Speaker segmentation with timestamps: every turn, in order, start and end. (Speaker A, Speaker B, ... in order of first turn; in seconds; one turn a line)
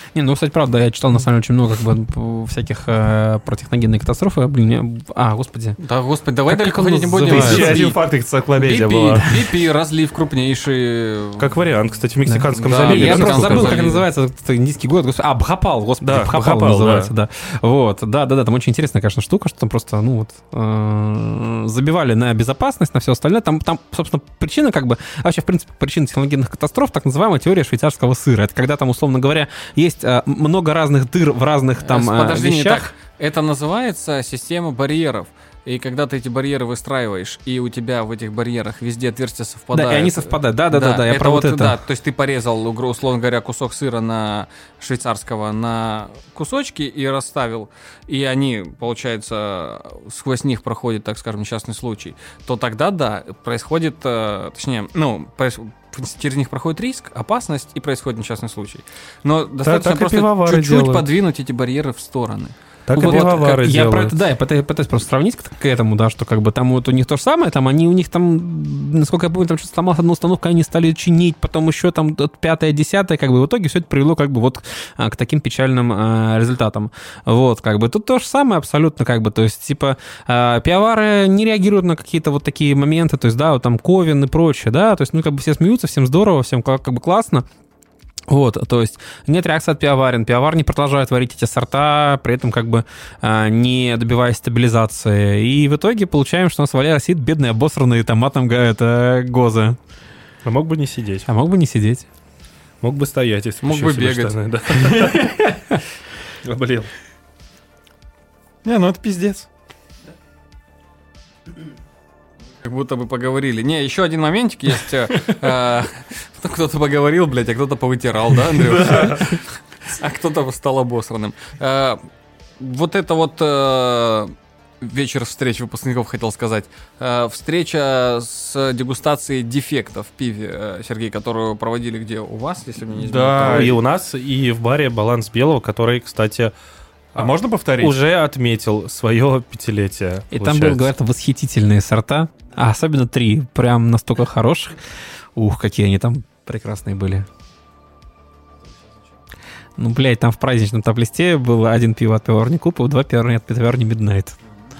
Speaker A: 0.1-5.8
Speaker B: 5.8-8.0
Speaker A: 6.5-7.8
Speaker C: 7.1-9.3
Speaker D: 7.3-7.8
Speaker B: 8.6-11.4
Speaker D: 11.4-13.8
Speaker A: 12.2-32.9
Speaker B: 12.5-14.1
Speaker D: 16.0-17.1
Speaker B: 31.8-63.6
Speaker A: 39.7-41.8
Speaker D: 59.6-61.0
Speaker D: 62.9-64.2
Speaker A: 63.0-87.4
Speaker A: 88.3-99.8
Speaker D: 100.4-101.3
Speaker A: 101.3-102.0
Speaker D: 102.8-105.4
Speaker B: 103.6-105.1
Speaker D: 106.4-106.9
Speaker C: 108.6-109.5
Speaker B: 112.6-122.0
Speaker B: 122.6-133.8
Speaker C: 133.0-133.8
Speaker D: 133.4-136.5
Speaker D: 137.1-140.9
Speaker C: 137.2-137.9
Speaker A: 140.3-144.8
Speaker A: 145.3-147.3
Speaker A: 149.8-154.3